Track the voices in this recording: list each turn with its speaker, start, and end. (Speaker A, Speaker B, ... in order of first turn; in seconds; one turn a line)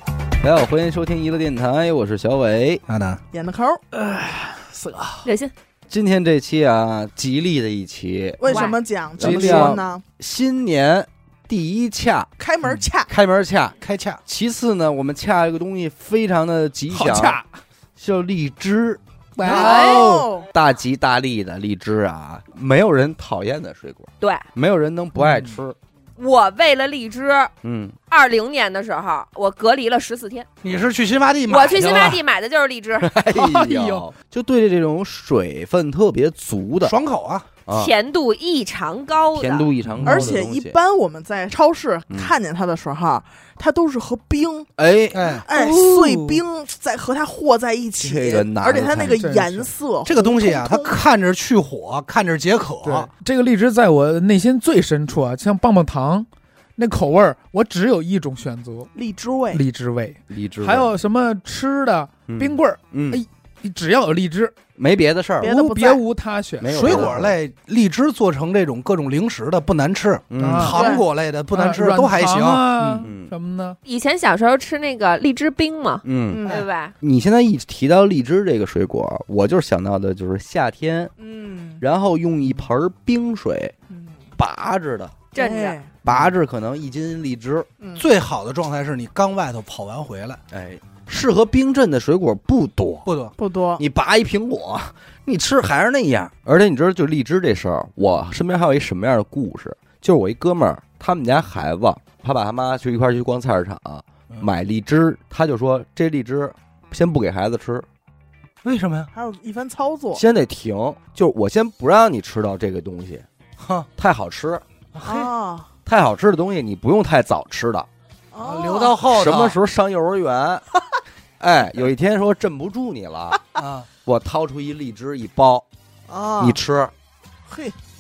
Speaker A: 0.4-2.8
Speaker B: 2.9-3.2
Speaker C: 3.3-3.8
Speaker B: 3.9-5.3
Speaker D: 5.2-5.5
Speaker A: 5.9-12.3
Speaker C: 8.4-10.0
Speaker D: 8.5-8.8
Speaker E: 9.2-9.8
Speaker C: 12.4-13.1
Speaker A: 13.1-13.8
Speaker B: 13.8-14.2
Speaker A: 14.3-17.4
Speaker E: 16.9-17.5
Speaker A: 18.0-25.8
Speaker E: 19.4-20.3
Speaker C: 19.4-20.5
Speaker D: 19.5-20.0
Speaker E: 25.2-25.6
Speaker D: 26.2-27.5
Speaker A: 27.6-28.0
Speaker D: 28.1-30.5
Speaker B: 30.6-32.2
Speaker D: 31.5-33.1
Speaker A: 33.0-37.0
Speaker E: 33.3-34.0
Speaker B: 36.9-37.5
Speaker A: 37.7-37.9
Speaker D: 37.7-39.7
Speaker A: 39.4-40.8
Speaker C: 40.0-44.7
Speaker A: 44.8-45.4
Speaker B: 45.1-45.5
Speaker C: 45.5-51.0
Speaker E: 45.5-46.4
Speaker A: 48.0-49.2
Speaker E: 49.0-49.7
Speaker B: 50.1-53.1
Speaker E: 52.8-58.9
Speaker C: 59.0-59.6
Speaker E: 59.5-64.5
Speaker A: 60.3-60.9
Speaker A: 62.3-63.2
Speaker A: 64.8-65.5
Speaker C: 65.4-66.0
Speaker E: 65.4-67.1
Speaker A: 66.6-67.4
Speaker B: 66.7-73.1
Speaker A: 70.3-70.8
Speaker E: 70.4-70.9
Speaker C: 70.7-71.1
Speaker E: 71.5-73.8
Speaker A: 73.0-73.3
Speaker D: 73.8-76.9
Speaker A: 76.0-81.1
Speaker C: 76.3-76.7
Speaker C: 81.2-81.8
Speaker A: 81.8-83.7
Speaker C: 83.9-84.3
Speaker A: 84.4-85.2
Speaker D: 85.3-85.8
Speaker C: 85.3-86.0
Speaker A: 86.0-87.7
Speaker B: 86.1-86.3
Speaker C: 87.8-88.1
Speaker B: 88.0-90.4
Speaker A: 90.5-93.1
Speaker B: 93.0-93.3
Speaker C: 93.4-93.8
Speaker A: 93.8-107.9
Speaker B: 108.6-109.1
Speaker C: 109.1-110.2
Speaker A: 110.1-113.3
Speaker B: 113.6-113.9
Speaker A: 114.0-114.6
Speaker B: 114.9-115.3
Speaker C: 115.0-115.7
Speaker A: 115.9-117.9
Speaker C: 118.3-119.0
Speaker B: 118.4-119.6
Speaker A: 119.1-120.7
Speaker A: 121.4-123.4
Speaker B: 123.5-123.9
Speaker A: 124.0-125.7
Speaker C: 126.1-126.6
Speaker A: 126.4-126.9
Speaker C: 127.5-127.8